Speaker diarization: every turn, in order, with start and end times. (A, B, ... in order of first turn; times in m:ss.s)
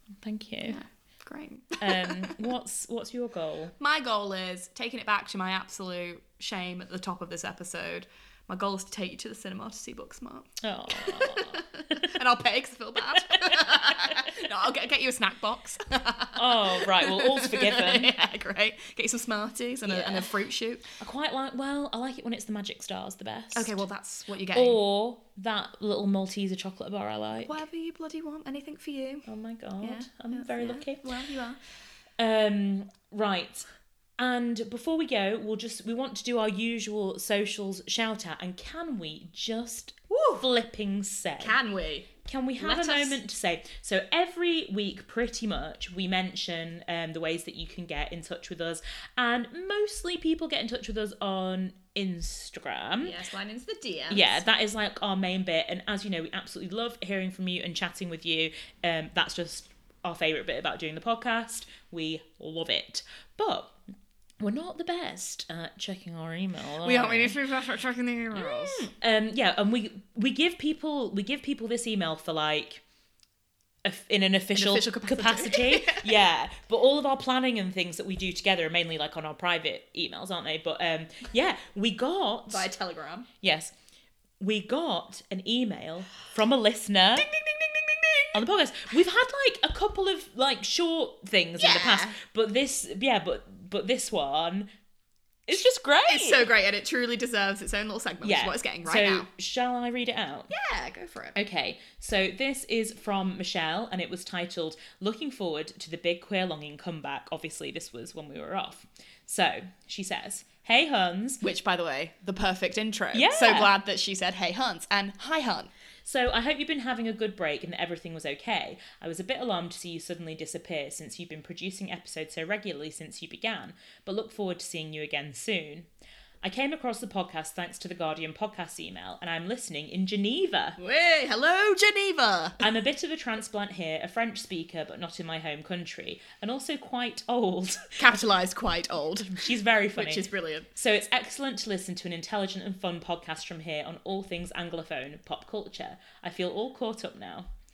0:00.2-0:00.8 A
0:00.6-0:02.5 B
0:01.8-0:03.7 A
0:03.8-0:20.8 B
0:10.6-0:12.1 A
0:13.0-0:14.4 A
0:16.3-0:18.1 A
0:19.9-0:20.3 A
0:21.0-0:23.8 A
0:23.5-0:24.8 B
0:24.5-0:27.6 A
0:27.4-0:29.2 B
0:29.2-0:31.0 A
0:29.8-0:31.6 B
0:32.2-0:33.7 A
0:34.2-0:41.6 A
0:40.1-0:40.5 B
0:41.4-0:43.2 B
0:42.2-0:53.2 A
0:53.0-0:54.4 B
0:54.1-1:03.7 A
1:04.4-1:07.4 A
1:06.8-1:08.9 B
1:08.3-1:12.8 A
1:13.8-1:22.7 A
1:14.5-1:16.1 B
1:22.5-1:23.3 B
1:23.4-1:23.7 A
1:24.4-1:27.3 A
1:27.2-1:28.4 B
1:28.3-1:34.7 A
1:31.6-1:32.2 B
1:35.5-1:36.5 A
1:36.0-1:39.3 B
1:38.2-1:40.5 A
1:40.5-1:41.4 B
1:41.3-1:51.4 A
1:51.4-1:55.7 B
1:53.1-1:53.7 A
1:56.0-2:05.9 A
2:06.4-2:10.8 A
2:10.8-2:12.6 B
2:12.6-2:18.0 A
2:18.0-2:20.7 B
2:19.4-2:27.5 A